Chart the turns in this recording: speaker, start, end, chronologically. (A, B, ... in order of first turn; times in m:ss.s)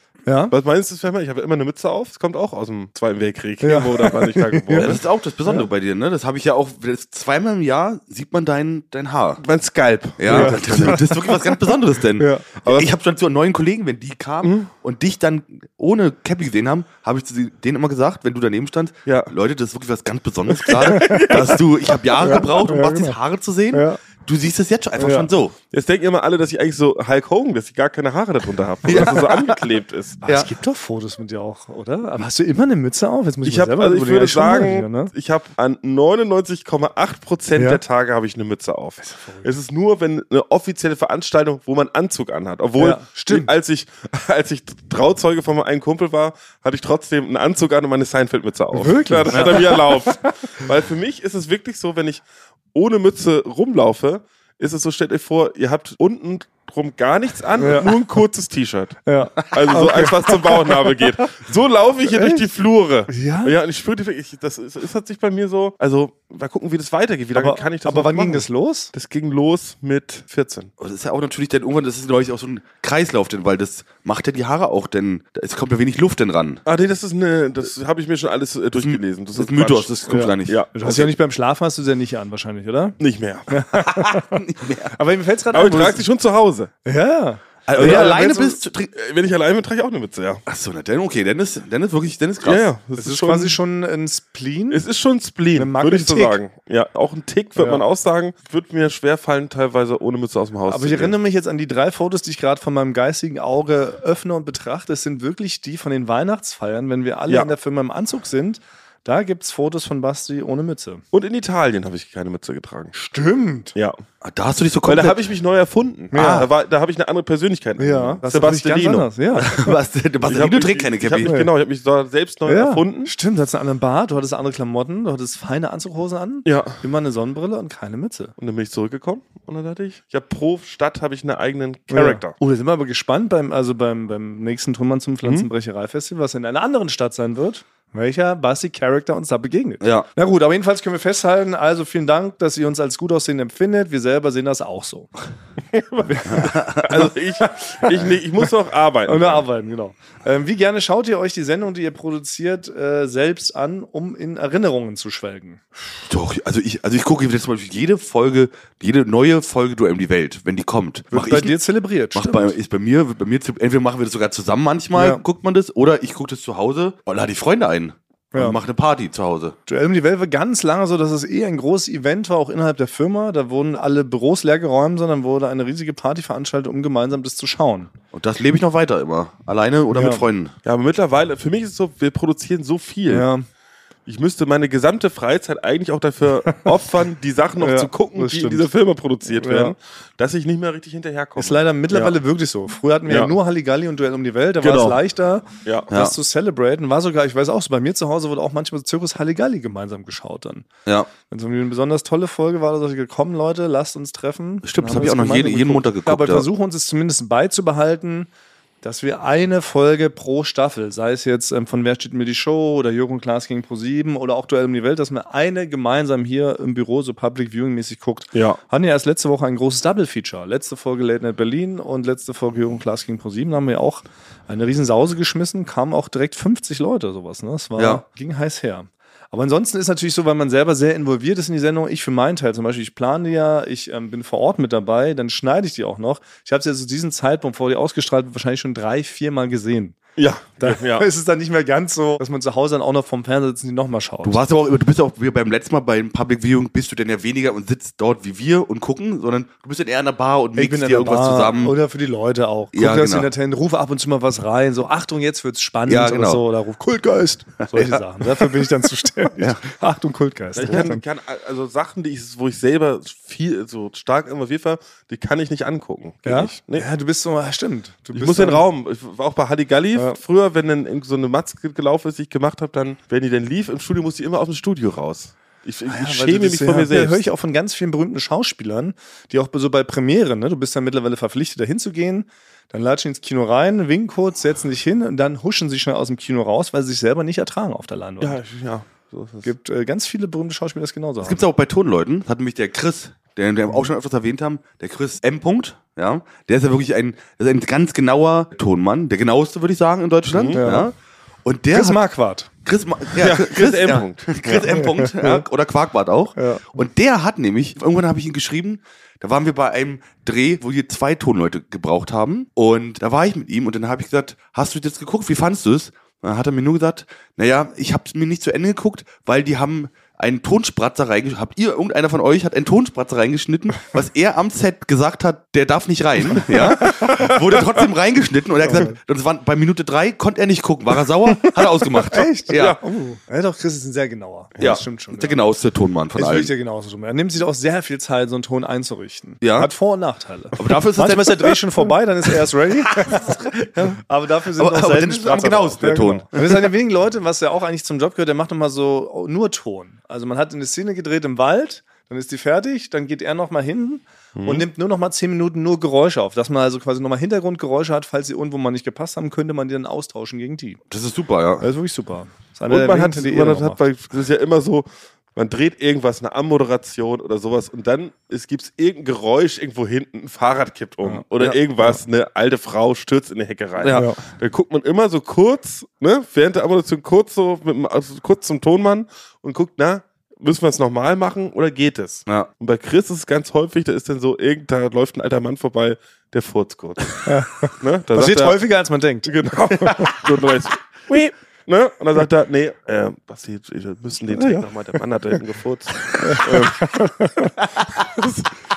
0:00.2-0:00.5 A
0:00.5-0:05.0 B
0:03.6-0:05.6 A
0:04.7-0:09.4 C
0:09.4-0:11.1 B
0:10.2-0:25.5 C
0:10.3-0:11.4 A
0:12.2-0:12.4 A
0:12.6-0:12.9 B
0:14.4-0:14.7 B
0:19.0-0:19.3 B
0:20.6-0:22.4 B
0:20.8-0:21.6 A
0:22.2-0:23.2 A
0:23.7-0:24.0 A
0:25.0-0:25.3 A
0:25.7-0:30.2 B
0:28.8-0:29.6 C
0:30.2-0:35.1 A
0:30.2-0:30.5 C
0:33.4-0:52.2 B
0:37.6-0:37.8 A
0:39.0-0:39.5 A
0:42.8-0:43.5 A
0:48.7-0:50.3 A
0:49.3-0:49.6 C
0:52.7-1:10.7 B
0:57.6-0:58.0 A
0:59.0-1:01.1 A
1:02.0-1:02.5 A
1:03.1-1:03.5 A
1:07.3-1:08.9 A
1:10.8-1:16.6 C
1:16.6-1:21.1 B
1:18.8-1:21.0 C
1:20.1-1:23.0 A
1:23.0-1:23.6 B
1:23.5-1:26.0 A
1:23.8-1:24.9 C
1:25.5-1:26.7 B
1:26.8-1:28.6 A
1:27.6-1:28.9 C
1:27.8-1:30.4 B
1:30.4-1:32.6 C
1:32.4-1:33.6 B
1:33.0-1:34.8 A
1:34.7-1:41.1 B
1:35.6-1:36.4 A
1:37.6-1:37.8 A
1:40.7-1:51.0 A
1:47.3-1:47.5 B
1:51.1-1:52.9 B
1:52.9-1:53.7 A
1:54.2-1:55.2 C
1:54.8-1:59.1 B
1:56.1-1:56.5 A
1:56.1-1:56.4 C
1:57.8-1:59.8 A
1:59.3-2:01.3 C
2:00.2-2:03.1 B
2:01.2-2:01.5 A
2:02.5-2:08.3 A
2:06.4-2:06.8 B
2:08.4-2:12.4 B
2:11.9-2:25.1 A
2:15.2-2:15.5 B
2:19.8-2:20.1 C
2:25.7-2:29.4 B
2:26.1-2:27.1 A
2:26.3-2:26.9 C
2:29.0-2:35.6 A
2:36.1-2:41.6 C
2:41.1-2:42.6 A
2:42.1-2:49.6 C
2:44.9-2:45.2 A
2:48.3-2:48.6 A
2:49.7-2:57.9 A
2:58.1-3:00.5 C
2:59.9-3:00.2 A
3:00.6-3:03.3 B
3:03.1-3:03.5 A
3:04.0-3:12.2 B
3:07.6-3:08.7 A
3:09.3-3:09.7 A
3:11.4-3:20.7 A
3:13.1-3:13.3 B
3:14.6-3:15.0 B
3:15.9-3:16.1 C
3:21.3-3:28.3 A
3:24.6-3:26.5 C
3:28.8-4:00.0 A
3:38.3-3:38.6 B
3:47.8-3:48.0 C
4:00.2-4:01.1 B
4:00.6-4:04.4 A
4:04.2-4:11.8 C
4:10.6-4:21.0 A
4:12.7-4:13.3 C
4:15.9-4:16.4 C
4:17.6-4:18.7 C
4:19.4-4:19.6 C
4:20.6-4:26.8 B
4:26.2-4:28.6 A
4:28.1-4:37.2 B
4:35.9-4:48.4 A
4:48.2-4:49.5 B
4:49.4-4:51.4 A
4:51.2-5:02.0 C
5:00.3-5:00.6 B
5:00.5-5:00.9 A
5:01.7-5:02.5 A
5:02.6-5:32.8 C
5:03.2-5:04.8 B
5:04.6-5:05.4 A
5:06.4-5:06.6 A
5:26.5-5:27.1 A
5:26.7-5:27.4 B
5:28.6-5:29.0 A
5:32.0-5:35.4 A
5:32.5-5:32.8 B
5:34.6-5:36.5 C
5:36.1-6:00.8 A
5:39.4-5:39.7 C
5:40.6-5:41.6 C
5:42.8-5:44.0 C
5:44.5-5:46.7 C
5:54.4-5:54.6 B
6:00.9-6:01.7 C
6:01.6-6:03.8 A
6:02.7-6:28.6 B
6:13.8-6:14.1 C
6:13.9-6:14.2 A
6:27.2-6:30.2 A
6:29.2-6:37.0 B
6:34.3-6:34.7 A
6:36.1-6:37.5 A
6:38.0-6:38.5 B